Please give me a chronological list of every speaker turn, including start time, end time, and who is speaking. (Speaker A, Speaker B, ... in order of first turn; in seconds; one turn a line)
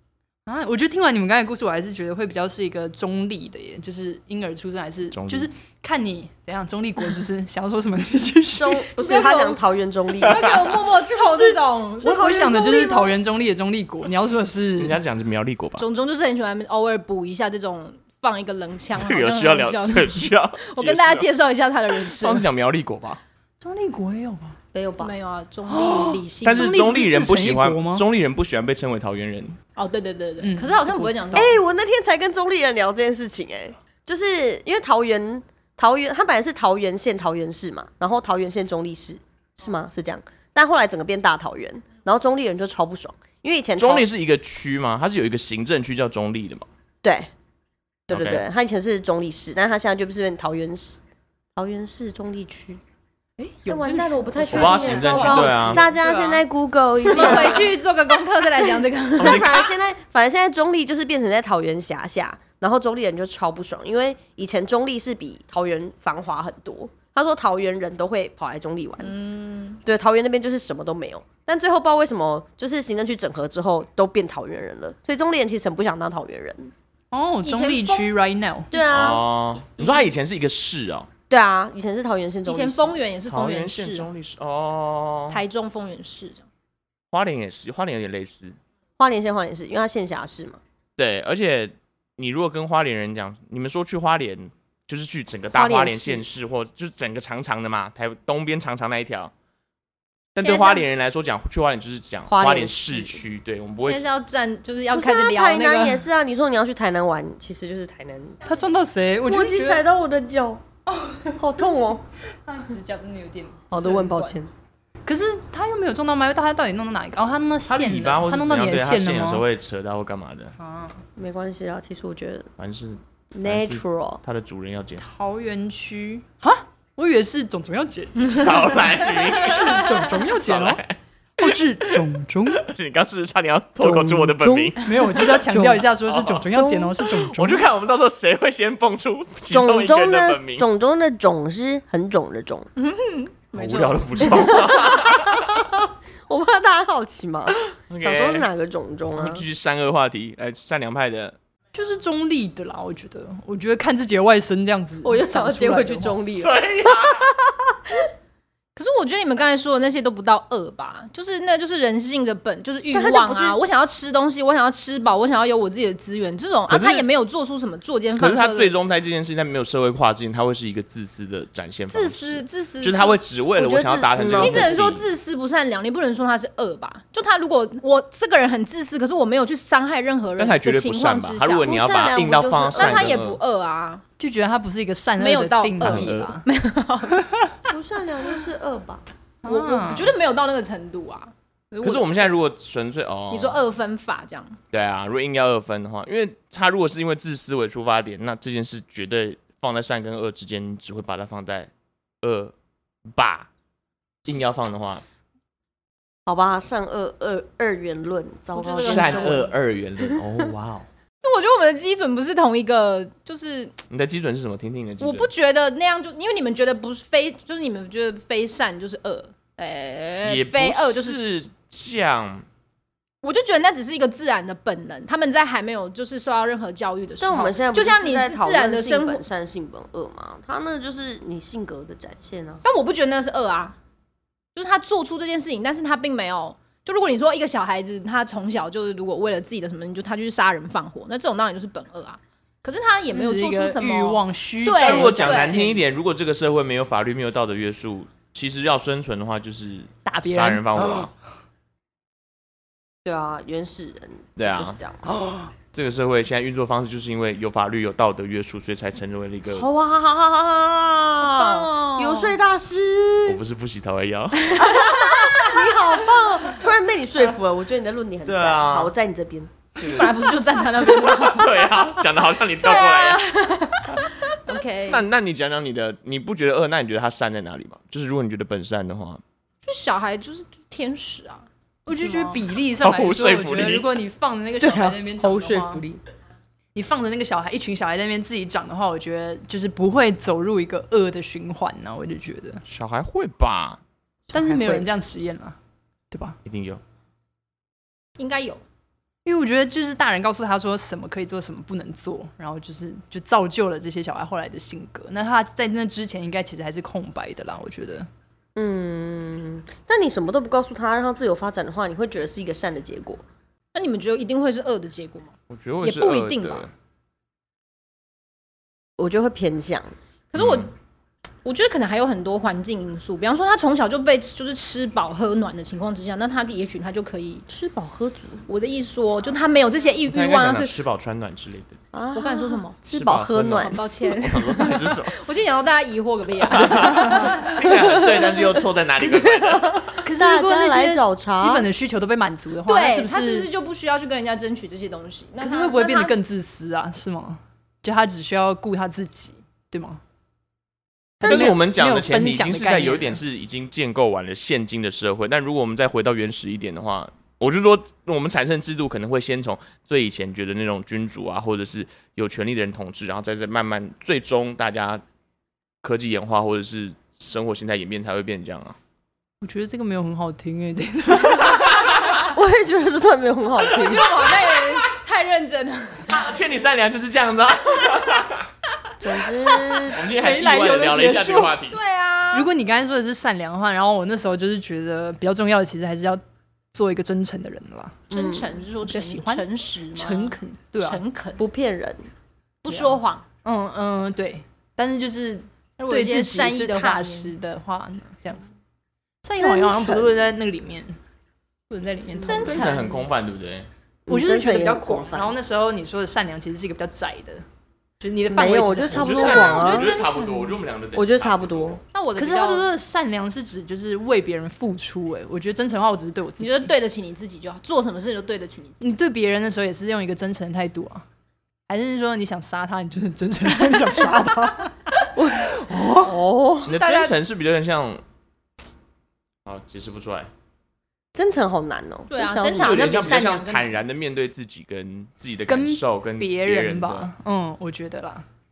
Speaker A: 0.5-8.9
Speaker B: 5.1-5.5
Speaker C: 8.5-11.2
Speaker D: 9.0-9.6
Speaker D: 10.2-13.1
Speaker B: 10.2-10.7
Speaker A: 12.0-15.0
Speaker B: 14.8-15.8
Speaker D: 15.8-22.4
Speaker B: 18.9-21.3
Speaker B: 22.0-23.2
Speaker A: 23.6-24.5
Speaker C: 24.7-25.1
Speaker D: 25.0-26.9
Speaker A: 25.7-28.1
Speaker B: 26.4-29.6
Speaker D: 29.8-31.5
Speaker A: 30.4-31.6
Speaker C: 31.3-44.0
Speaker B: 43.8-46.6
Speaker C: 47.0-47.3
Speaker C: 48.1-51.0
Speaker B: 48.1-48.5
Speaker C: 51.5-52.8
Speaker A: 53.4-56.4
Speaker C: 53.7-57.7
Speaker B: 54.5-55.9
Speaker A: 57.0-57.6
Speaker D: 57.0-59.7
Speaker C: 58.5-69.1
Speaker B: 59.2-59.6
Speaker D: 69.0-69.8
Speaker C: 69.8-76.7
Speaker A: 77.1-78.7
Speaker D: 77.4-78.1
Speaker C: 78.7-80.1
Speaker B: 78.9-81.1
Speaker C: 81.3-82.9
Speaker D: 82.5-84.1
Speaker B: 83.3-85.4
Speaker D: 85.3-86.4
Speaker B: 87.1-88.6
Speaker C: 89.0-90.6
Speaker B: 91.0-99.3
Speaker C: 95.5-96.3
Speaker B: 100.3-104.0
Speaker D: 100.4-100.8
Speaker C: 102.3-103.2
Speaker D: 103.8-106.0
Speaker C: 104.9-108.4
Speaker A: 108.4-109.8
Speaker C: 109.2-110.6
Speaker A: 110.9-111.9
Speaker C: 111.4-112.0
Speaker A: 112.4-114.4
Speaker C: 113.7-114.5
Speaker A: 115.0-119.4
Speaker B: 117.7-120.5
Speaker A: 120.6-121.0
Speaker C: 121.2-122.5
Speaker B: 122.6-125.0
Speaker C: 123.3-124.2
Speaker A: 125.0-130.8
Speaker B: 128.2-132.0
Speaker A: 131.4-132.7
Speaker B: 132.5-134.8
Speaker C: 133.8-135.9
Speaker A: 134.8-137.7
Speaker B: 136.1-136.5
Speaker C: 136.5-137.0
Speaker B: 137.1-140.7
Speaker C: 139.5-142.7
Speaker D: 142.8-144.5
Speaker B: 143.5-145.7
Speaker C: 144.2-149.4
Speaker B: 147.9-148.5
Speaker B: 149.1-151.4
Speaker A: 151.7-156.2
Speaker C: 155.0-157.8
Speaker B: 156.4-157.3
Speaker D: 158.8-168.7
Speaker C: 162.9-163.6
Speaker B: 166.7-167.1
Speaker B: 168.2-175.0
Speaker D: 171.9-173.2
Speaker C: 173.6-174.7
Speaker D: 174.4-181.7
Speaker B: 180.4-183.4
Speaker C: 181.6-183.1
Speaker D: 182.7-184.0
Speaker A: 184.2-186.4
Speaker D: 185.2-187.2
Speaker B: 185.8-186.4
Speaker C: 187.7-189.1
Speaker A: 189.4-190.2
Speaker D: 189.4-192.3
Speaker B: 191.8-193.6
Speaker D: 193.3-194.6
Speaker B: 194.7-201.7
Speaker B: 202.2-202.5
Speaker B: 203.1-203.5
Speaker B: 204.2-205.0
Speaker C: 206.2-209.5
Speaker D: 208.5-209.5
Speaker B: 208.8-210.9
Speaker D: 211.2-213.8
Speaker B: 213.9-215.3
Speaker D: 215.0-221.5
Speaker B: 220.2-222.4
Speaker D: 223.2-229.2
Speaker C: 227.2-232.6
Speaker D: 232.6-233.8
Speaker D: 234.5-245.5
Speaker A: 243.1-245.8
Speaker B: 244.8-251.1
Speaker A: 250.0-251.1
Speaker C: 253.0-255.3
Speaker B: 254.4-254.8
Speaker A: 255.1-255.5
Speaker B: 255.7-259.7
Speaker C: 259.5-263.4
Speaker D: 261.3-262.4
Speaker B: 263.2-264.7
Speaker D: 264.5-265.5
Speaker C: 264.6-269.5
Speaker B: 268.2-268.9
Speaker B: 269.8-270.2
Speaker D: 269.8-271.8
Speaker B: 270.8-273.2
Speaker D: 272.6-275.0
Speaker B: 274.9-279.2
Speaker D: 279.6-282.4
Speaker A: 281.9-285.8
Speaker B: 282.8-283.9
Speaker C: 284.6-286.0
Speaker A: 286.7-292.6
Speaker B: 292.7-293.8
Speaker C: 294.3-294.9
Speaker A: 294.3-295.6
Speaker A: 296.1-296.4
Speaker B: 296.4-296.8
Speaker D: 298.2-298.6
Speaker A: 299.2-308.1
Speaker C: 308.6-313.2
Speaker D: 313.7-316.7
Speaker B: 315.5-316.7
Speaker C: 319.0-319.9
Speaker D: 320.3-320.7
Speaker B: 320.4-320.7
Speaker D: 321.4-327.4
Speaker C: 327.5-328.4
Speaker D: 328.5-330.8
Speaker B: 330.1-331.8
Speaker C: 331.9-333.8
Speaker D: 332.1-332.8
Speaker B: 332.9-335.1
Speaker D: 333.6-338.0
Speaker B: 336.5-339.9
Speaker C: 337.9-338.4
Speaker C: 339.0-341.7
Speaker A: 340.0-343.5
Speaker D: 342.6-346.1
Speaker A: 345.4-350.0
Speaker C: 351.2-351.6
Speaker A: 351.2-353.2
Speaker B: 351.2-365.0
Speaker B: 365.8-368.8
Speaker A: 369.4-371.7
Speaker B: 371.4-372.2
Speaker C: 372.3-374.1
Speaker D: 373.6-376.2
Speaker B: 376.1-378.5
Speaker C: 379.0-380.0
Speaker B: 379.9-381.8
Speaker A: 380.0-381.6
Speaker D: 381.7-382.5
Speaker A: 382.3-386.2
Speaker A: 386.7-388.0
Speaker C: 388.1-388.5
Speaker D: 388.1-391.4
Speaker A: 388.8-391.0
Speaker C: 391.4-392.1
Speaker D: 392.6-393.2
Speaker A: 392.7-398.4
Speaker D: 395.8-397.3
Speaker A: 399.2-401.0
Speaker C: 399.3-400.1
Speaker A: 401.7-402.7
Speaker C: 402.2-402.5
Speaker D: 402.2-403.0
Speaker B: 402.4-403.7
Speaker C: 404.1-405.3
Speaker A: 404.1-407.4
Speaker A: 408.0-409.5
Speaker C: 408.3-409.9
Speaker B: 408.9-411.8
Speaker D: 409.2-410.6
Speaker C: 410.9-411.8
Speaker D: 411.9-412.7
Speaker A: 412.2-416.7
Speaker D: 416.4-418.8
Speaker A: 418.8-421.0
Speaker A: 421.7-426.2
Speaker C: 425.1-426.8
Speaker B: 426.6-428.0
Speaker D: 426.7-427.2
Speaker B: 429.4-430.3
Speaker C: 431.1-433.2
Speaker D: 432.1-433.7
Speaker B: 432.5-437.1
Speaker A: 435.5-438.2